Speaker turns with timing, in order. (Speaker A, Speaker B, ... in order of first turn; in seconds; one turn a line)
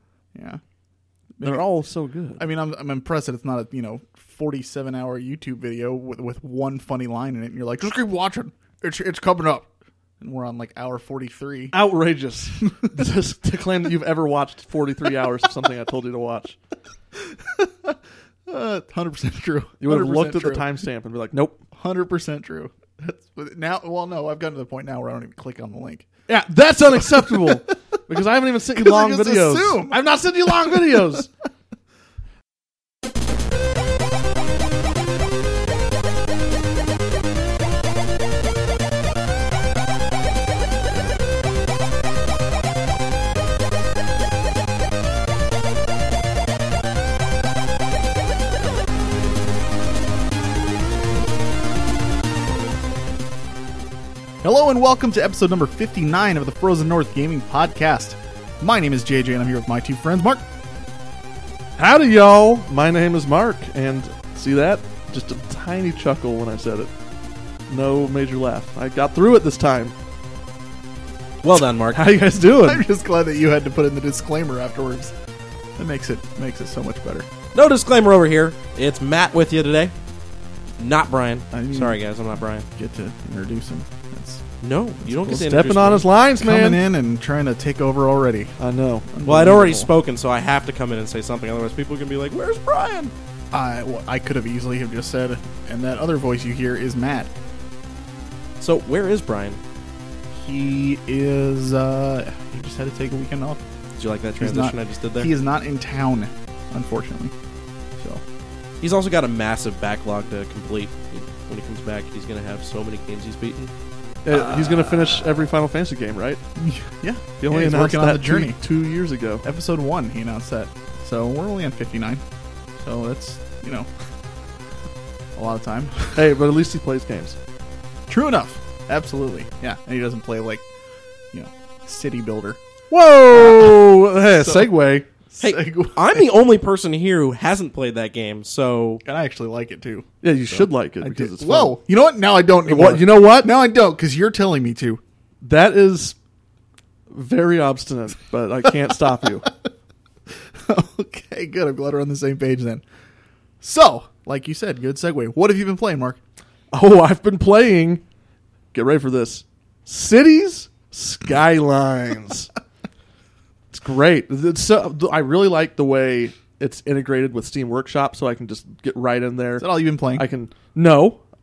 Speaker A: 0.3-0.6
Speaker A: 1.4-1.6
Speaker B: 1.4-2.4
Speaker A: 2.4-9.7
Speaker A: 10.2-11.7
Speaker B: 11.7-16.6
Speaker A: 17.2-20.8
Speaker B: 19.8-21.6
Speaker A: 21.7-26.1
Speaker B: 26.3-31.3
Speaker A: 27.1-27.7
Speaker A: 28.7-31.2
Speaker A: 54.4-60.4
Speaker B: 61.8-66.9
Speaker B: 67.7-69.9
Speaker C: 71.4-72.1
Speaker B: 71.9-72.8
Speaker A: 72.6-75.1
Speaker A: 75.8-77.3
Speaker C: 77.5-79.9
Speaker C: 80.8-82.7
Speaker A: 81.5-82.0
Speaker A: 82.7-84.4
Speaker C: 84.6-86.0
Speaker B: 85.2-86.8
Speaker A: 86.4-88.6
Speaker B: 88.6-89.1
Speaker A: 89.1-89.9
Speaker C: 89.2-93.1
Speaker A: 93.5-97.3
Speaker C: 98.6-99.6
Speaker A: 100.3-103.6
Speaker C: 104.0-105.3
Speaker A: 104.4-107.3
Speaker A: 108.0-108.2
Speaker C: 108.8-113.7
Speaker B: 114.2-116.4
Speaker A: 116.5-118.6
Speaker B: 117.4-119.4
Speaker A: 119.4-122.2
Speaker A: 122.8-123.9
Speaker A: 125.3-126.2
Speaker B: 126.2-127.4
Speaker A: 128.1-130.6
Speaker A: 131.3-132.6
Speaker B: 132.9-135.1
Speaker A: 133.3-133.8
Speaker A: 134.3-134.7
Speaker A: 135.3-136.2
Speaker C: 135.4-139.0
Speaker A: 139.0-145.0
Speaker B: 140.2-141.8
Speaker B: 142.7-143.5
Speaker B: 145.4-146.2
Speaker B: 147.1-149.5
Speaker A: 150.6-152.8
Speaker A: 153.6-156.2
Speaker B: 156.7-158.0
Speaker B: 158.7-162.5
Speaker B: 163.7-171.2
Speaker A: 169.6-170.2